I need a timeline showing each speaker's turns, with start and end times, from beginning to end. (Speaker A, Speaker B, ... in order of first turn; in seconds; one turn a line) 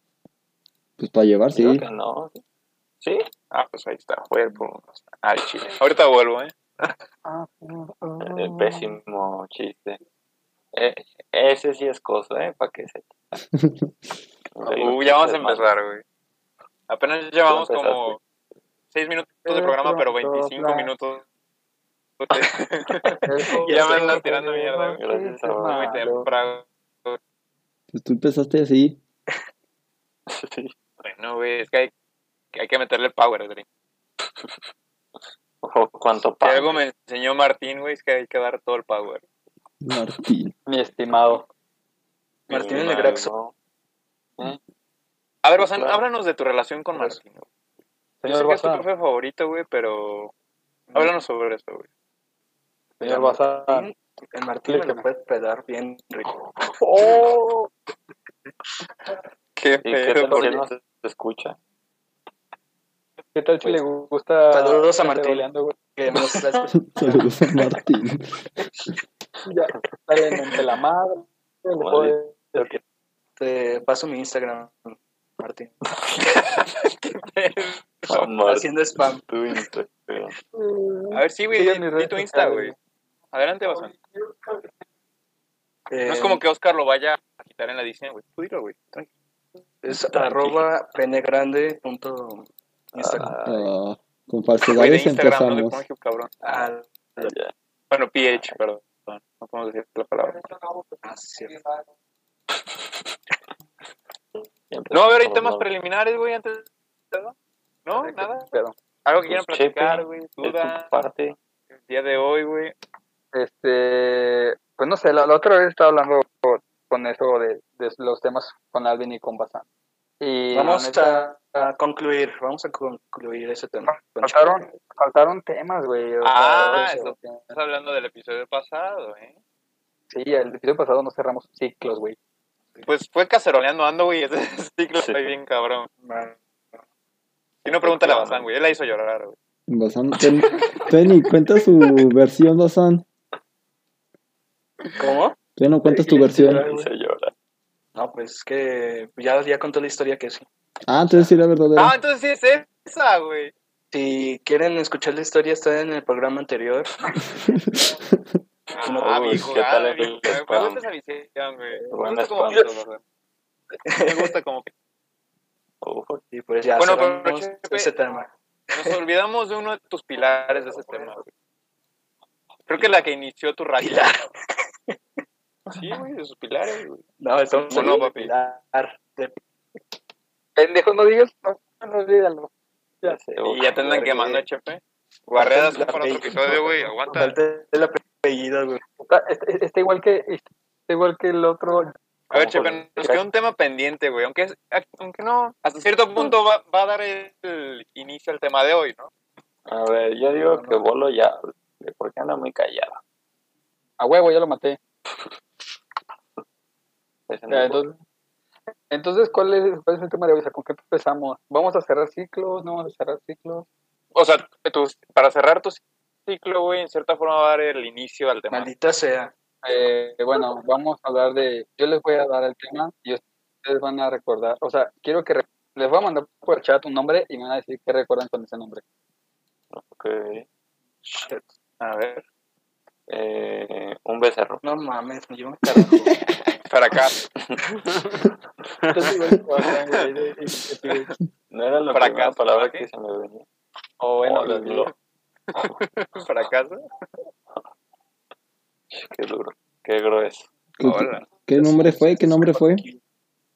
Speaker A: 1.0-1.9
Speaker B: 1.5-2.4
Speaker B: 3.0-3.3
Speaker C: 3.5-6.5
Speaker D: 7.2-8.9
Speaker B: 8.2-10.0
Speaker B: 10.7-13.1
Speaker B: 14.6-15.7
Speaker C: 14.6-16.0
Speaker C: 16.9-18.2
Speaker B: 17.5-18.2
Speaker C: 18.9-21.2
Speaker D: 19.4-20.9
Speaker C: 22.2-25.0
Speaker E: 23.1-24.2
Speaker D: 23.2-26.3
Speaker B: 25.0-26.1
Speaker C: 25.6-27.2
Speaker A: 27.9-29.0
Speaker B: 30.3-30.7
Speaker C: 31.0-31.9
Speaker C: 32.5-33.6
Speaker B: 35.6-36.8
Speaker C: 36.4-39.2
Speaker A: 39.8-40.5
Speaker D: 40.6-41.5
Speaker E: 42.5-43.3
Speaker B: 42.5-43.5
Speaker C: 45.4-47.5
Speaker B: 45.6-46.0
Speaker D: 48.2-48.9
Speaker C: 48.2-50.3
Speaker C: 50.9-51.9
Speaker D: 53.0-53.9
Speaker E: 53.0-56.4
Speaker D: 54.7-55.0
Speaker D: 56.9-57.6
Speaker E: 57.0-57.3
Speaker C: 59.5-60.6
Speaker B: 59.8-61.6
Speaker D: 63.3-65.7
Speaker E: 64.5-66.8
Speaker A: 66.8-68.3
Speaker D: 69.4-72.7
Speaker B: 71.8-72.7
Speaker E: 73.4-75.7
Speaker C: 76.3-78.2
Speaker B: 78.1-80.3
Speaker E: 78.2-79.2
Speaker D: 80.5-82.7
Speaker C: 81.1-82.7
Speaker C: 83.3-84.0
Speaker E: 85.9-86.4
Speaker C: 86.0-89.1
Speaker E: 89.8-93.4
Speaker B: 89.9-90.7
Speaker B: 93.0-93.7
Speaker A: 93.4-95.8
Speaker C: 94.7-96.3
Speaker E: 96.4-97.3
Speaker B: 97.2-97.5
Speaker C: 97.9-100.5
Speaker E: 101.0-101.6
Speaker B: 104.7-105.7
Speaker C: 104.9-108.5
Speaker D: 107.9-108.7
Speaker C: 109.0-110.9
Speaker B: 109.2-111.4
Speaker C: 111.9-112.7
Speaker D: 113.3-119.6
Speaker D: 120.2-121.3
Speaker E: 120.5-124.5
Speaker D: 124.2-127.5
Speaker C: 126.2-129.3
Speaker D: 130.1-132.2
Speaker C: 132.8-135.9
Speaker B: 135.0-135.3
Speaker E: 136.0-136.3
Speaker C: 137.6-139.3
Speaker B: 137.7-138.5
Speaker A: 139.7-143.0
Speaker E: 145.0-145.3
Speaker A: 145.6-146.6
Speaker E: 145.9-146.9
Speaker B: 146.2-147.3
Speaker E: 147.9-150.5
Speaker A: 150.8-151.9
Speaker C: 151.8-153.5
Speaker E: 153.9-156.9
Speaker C: 158.7-163.0
Speaker E: 158.8-159.5
Speaker B: 158.8-160.8
Speaker B: 161.9-162.8
Speaker E: 163.8-164.3
Speaker C: 163.9-164.7
Speaker B: 165.8-166.2
Speaker E: 166.3-169.0
Speaker C: 166.8-167.9
Speaker C: 168.7-171.2
Speaker C: 172.7-174.2
Speaker E: 173.8-174.3
Speaker C: 175.7-177.0
Speaker E: 177.2-179.3
Speaker C: 177.6-178.3
Speaker D: 180.6-182.5
Speaker B: 183.1-184.4
Speaker C: 183.4-187.3
Speaker E: 185.3-188.8
Speaker D: 189.0-191.9
Speaker B: 192.3-193.2
Speaker C: 192.3-199.1
Speaker B: 199.7-203.0
Speaker E: 200.4-200.8
Speaker D: 204.0-204.8
Speaker B: 207.3-207.8
Speaker D: 207.5-208.0
Speaker D: 208.9-213.7
Speaker C: 214.1-218.7
Speaker E: 218.5-219.3
Speaker D: 219.6-228.8
Speaker B: 229.7-230.4
Speaker E: 231.0-231.5
Speaker C: 231.8-232.2
Speaker B: 233.1-234.6
Speaker E: 234.6-236.2
Speaker C: 236.6-237.2
Speaker D: 238.9-241.1
Speaker B: 241.5-243.4
Speaker C: 241.9-242.9
Speaker D: 244.0-244.9
Speaker B: 244.2-244.9
Speaker C: 245.5-246.8
Speaker B: 248.9-250.5
Speaker A: 250.8-252.8
Speaker C: 250.8-251.3
Speaker E: 251.6-253.0